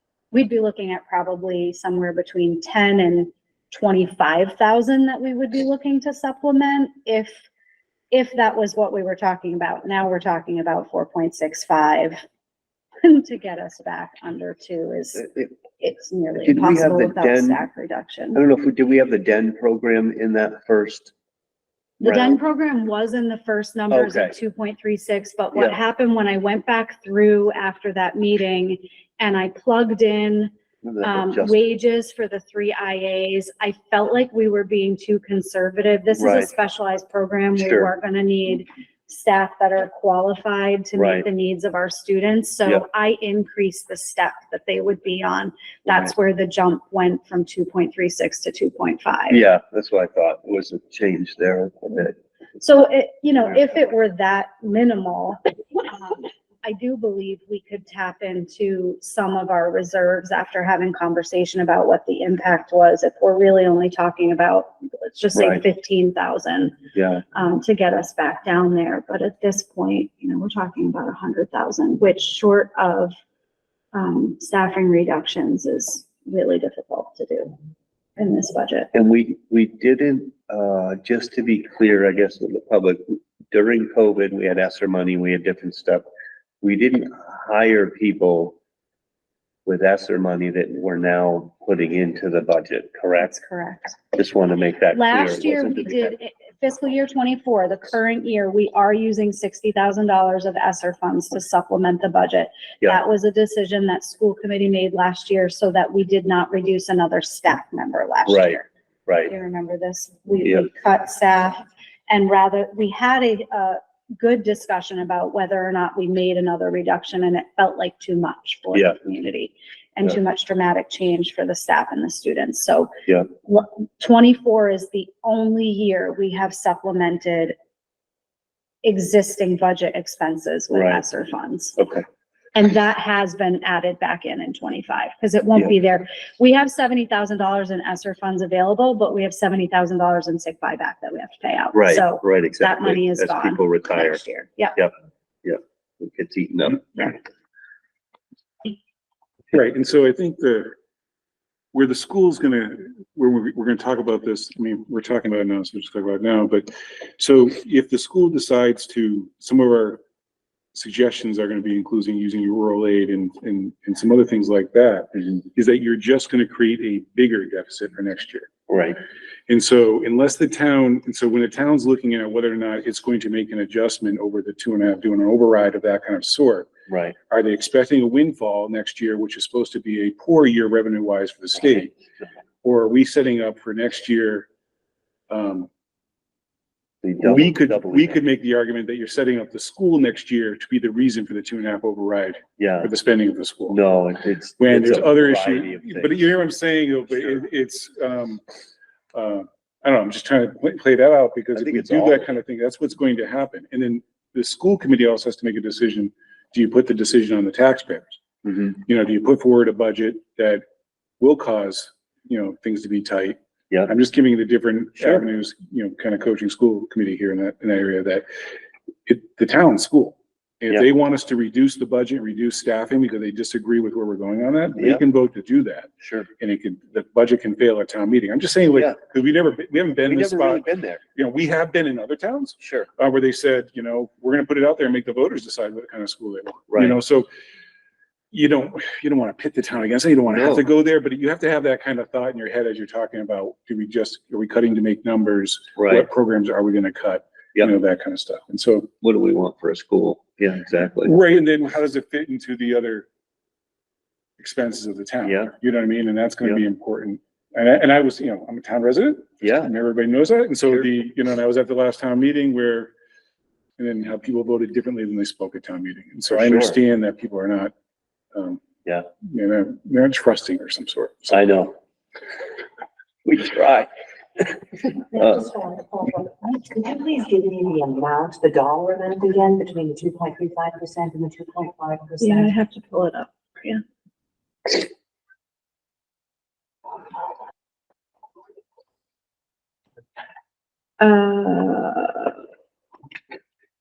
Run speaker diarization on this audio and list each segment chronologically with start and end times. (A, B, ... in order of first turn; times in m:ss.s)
0:00.3-0:07.4 A
0:08.1-0:12.2 A
0:13.0-0:18.4 A
0:15.2-0:15.5 B
0:16.4-0:17.6 B
0:18.3-0:21.1 B
0:22.0-0:30.5 A
0:22.0-0:22.4 B
0:23.9-0:24.4 B
0:30.8-0:31.6 B
0:31.0-0:49.4 A
0:36.2-0:36.5 B
0:37.6-0:37.9 B
0:41.0-0:41.3 B
0:49.3-0:52.2 B
0:52.6-1:06.8 A
1:05.4-1:05.6 B
1:07.0-1:07.2 B
1:07.3-1:13.1 A
1:13.9-1:17.6 A
1:18.2-1:18.9 A
1:18.9-1:26.0 B
1:26.6-1:28.6 B
1:29.7-1:33.4 B
1:33.2-1:34.0 A
1:34.1-1:36.2 B
1:34.9-1:48.7 A
1:48.3-1:49.3 B
1:49.3-2:07.6 A
2:08.8-2:11.8 A
2:10.7-2:11.0 B
2:11.8-2:12.0 B
2:12.6-2:24.8 A
2:21.7-2:24.2 B
2:25.4-2:27.2 B
2:29.5-2:30.8 C
2:31.7-2:40.0 C
2:40.7-2:48.5 C
2:48.7-2:49.0 B
2:49.5-2:56.7 C
2:56.9-2:57.2 B
2:57.3-3:01.9 C
3:02.6-3:04.5 C
3:05.3-3:05.7 C
3:07.0-3:08.2 B
3:07.2-3:13.8 C
3:12.6-3:12.9 B
3:13.7-3:16.3 B
3:14.6-3:18.4 C
3:19.1-3:28.2 C
3:21.5-3:22.3 B
3:28.4-3:28.8 B
3:28.8-3:30.6 C
3:31.2-3:38.2 C
3:35.0-3:35.2 B
3:39.1-3:50.6 C
3:46.0-3:46.3 B
3:50.1-3:51.0 B
3:51.1-3:57.3 C
3:52.6-3:52.9 B
3:56.7-3:57.0 B
3:58.3-4:08.9 C
4:00.3-4:00.6 B
4:05.8-4:06.1 B
4:09.0-4:11.2 B
4:11.0-4:13.1 C
4:14.4-4:22.9 C
4:15.2-4:15.6 B
4:19.4-4:19.7 B
4:23.8-4:27.7 C
4:26.3-4:26.8 B
4:28.3-4:28.6 C
4:29.2-4:31.4 C
4:31.3-4:31.8 B
4:33.2-4:34.6 B
4:35.1-4:35.5 B
4:35.1-4:42.5 D
4:42.2-4:43.8 A
4:51.0-4:52.4 A